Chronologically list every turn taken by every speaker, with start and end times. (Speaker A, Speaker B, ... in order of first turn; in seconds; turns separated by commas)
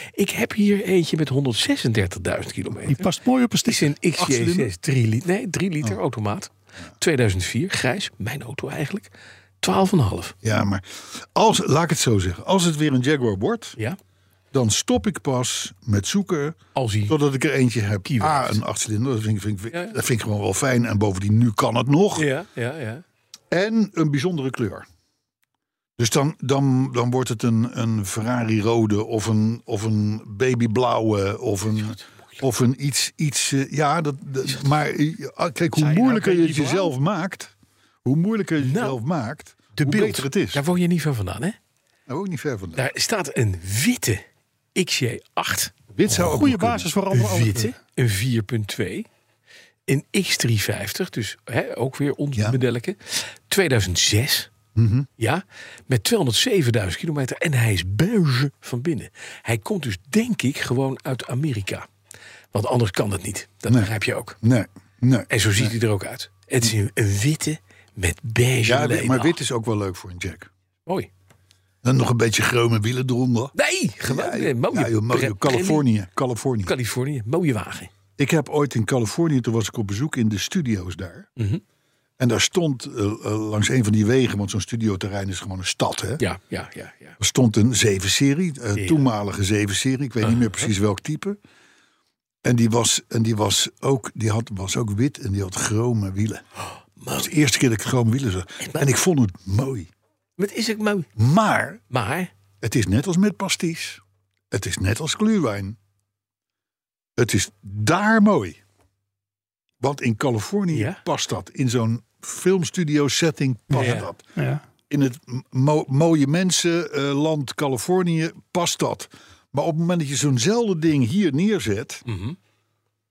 Speaker A: 0.1-3.1, Speaker B: 2.9-3.9, Speaker A: 3.6-9.1, Speaker C: 4.2-4.7, Speaker A: 9.6-10.3, Speaker C: 10.4-13.8, Speaker C: 14.5-22.3, Speaker A: 16.8-17.1, Speaker A: 18.1-18.6, Speaker A: 22.1-23.0, Speaker C: 23.5-24.9, Speaker C: 26.0-37.5, Speaker A: 31.8-32.4, Speaker B: 35.8-36.9, Speaker C: 38.0-40.6, Speaker A: 38.6-39.0, Speaker A: 39.8-41.6, Speaker C: 42.1-42.9, Speaker A: 42.8-44.2, Speaker A: 44.8-45.7, Speaker C: 45.9-46.9, Speaker B: 46.1-47.7, Speaker A: 47.1-49.1, Speaker A: 49.9-54.5, Speaker C: 54.8-55.1, Speaker A: 55.2-61.9, Speaker A: 62.5-64.4, Speaker C: 63.7-65.8, Speaker A: 65.3-69.4, Speaker C: 68.7-70.5, Speaker C: 71.8-76.7, Speaker A: 73.5-75.9, Speaker A: 76.7-77.9, Speaker C: 78.2-81.3, Speaker C: 82.2-86.2, Speaker A: 86.2-87.2, Speaker C: 87.2-91.4, Speaker A: 88.8-89.1, Speaker A: 90.2-90.7, Speaker C: 92.4-96.4, Speaker A: 97.0-97.3, Speaker C: 97.2-99.9, Speaker A: 98.6-98.9, Speaker A: 100.4-101.1, Speaker C: 101.2-101.8, Speaker A: 101.9-102.3, Speaker C: 102.6-105.8, Speaker C: 107.2-108.6, Speaker C: 109.8-114.2, Speaker A: 110.7-111.0, Speaker B: 113.7-114.6, Speaker A: 113.7-114.1, Speaker C: 114.9-122.0, Speaker A: 122.1-122.4